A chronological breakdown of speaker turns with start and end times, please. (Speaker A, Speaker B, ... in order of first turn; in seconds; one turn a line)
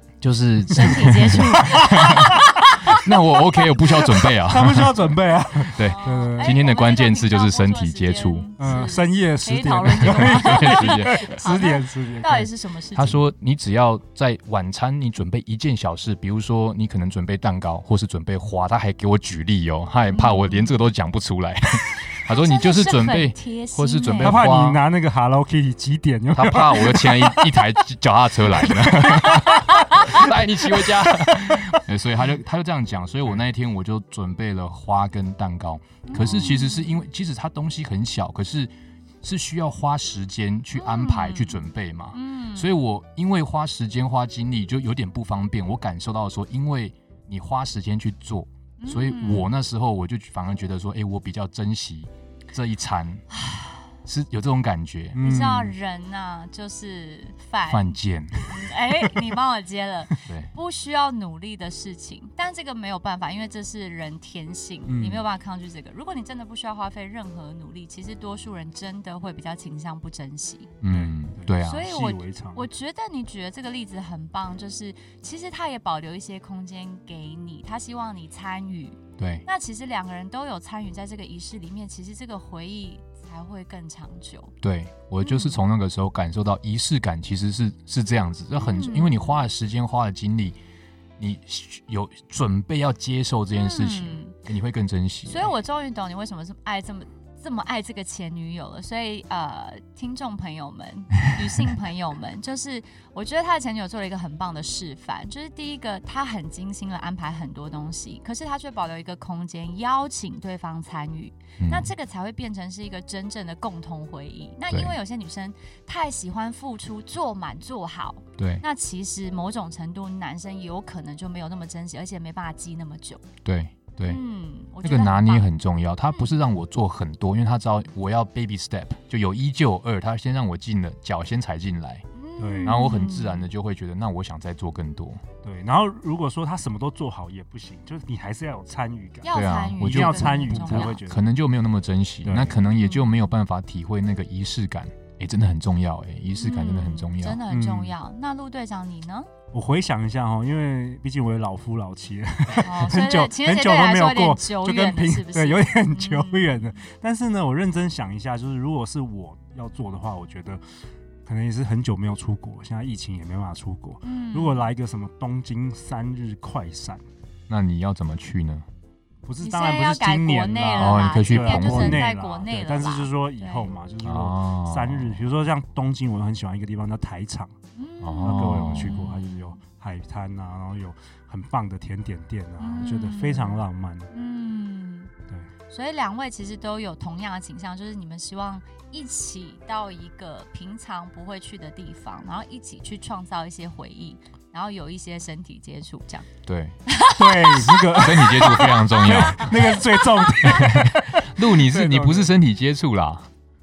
Speaker A: 0.2-5.0
Speaker B: 0.7-3.7
Speaker C: 1.4-2.4
Speaker C: 4.2-6.6
Speaker A: 5.8-8.5
Speaker B: 5.8-13.2
Speaker C: 8.6-12.5
Speaker A: 10.0-11.5
Speaker A: 12.9-24.8
Speaker B: 20.1-20.7
Speaker B: 22.3-24.4
Speaker C: 24.2-27.7
Speaker A: 26.3-53.3
Speaker C: 28.5-31.8
Speaker B: 36.1-36.9
Speaker B: 40.8-42.8
Speaker B: 48.8-49.5
Speaker B: 53.4-53.9
Speaker A: 54.0-55.2
Speaker C: 55.1-55.8
Speaker B: 55.2-58.0
Speaker A: 57.7-58.4
Speaker B: 58.5-70.7
Speaker C: 58.9-59.2
Speaker C: 64.9-65.3
Speaker A: 70.8-71.9
Speaker C: 70.9-72.7
Speaker B: 71.6-84.5
Speaker A: 79.2-79.5
Speaker A: 84.6-90.6
Speaker B: 85.2-85.6
Speaker B: 88.6-89.3
Speaker A: 91.2-95.5
Speaker B: 93.5-94.4
Speaker B: 95.3-123.2
Speaker A: 111.6-111.9
Speaker A: 114.7-115.0
Speaker A: 118.4-118.6
Speaker A: 123.5-124.2
Speaker B: 124.1-125.5
Speaker A: 124.8-132.1
Speaker B: 126.1-126.4
Speaker B: 132.2-133.5
Speaker C: 132.4-132.8
Speaker A: 132.6-135.2
Speaker C: 135.4-141.2
Speaker B: 139.2-141.0
Speaker A: 139.3-147.4
Speaker C: 142.2-142.6
Speaker B: 142.7-143.2
Speaker B: 146.4-149.3
Speaker C: 147.5-147.9
Speaker C: 149.5-160.6
Speaker B: 152.6-156.8
Speaker C: 161.3-167.0
Speaker B: 164.0-164.7
Speaker A: 167.5-168.7
Speaker C: 169.3-177.5
Speaker B: 169.4-173.7
Speaker A: 170.8-172.0
Speaker A: 174.0-175.2
Speaker B: 177.8-179.6
Speaker A: 178.0-179.0
Speaker C: 178.2-184.1
Speaker B: 182.6-185.1
Speaker B: 185.7-196.3
Speaker A: 196.5-196.8
Speaker B: 196.9-198.6
Speaker C: 197.2-202.3
Speaker A: 198.0-199.7
Speaker A: 200.4-203.3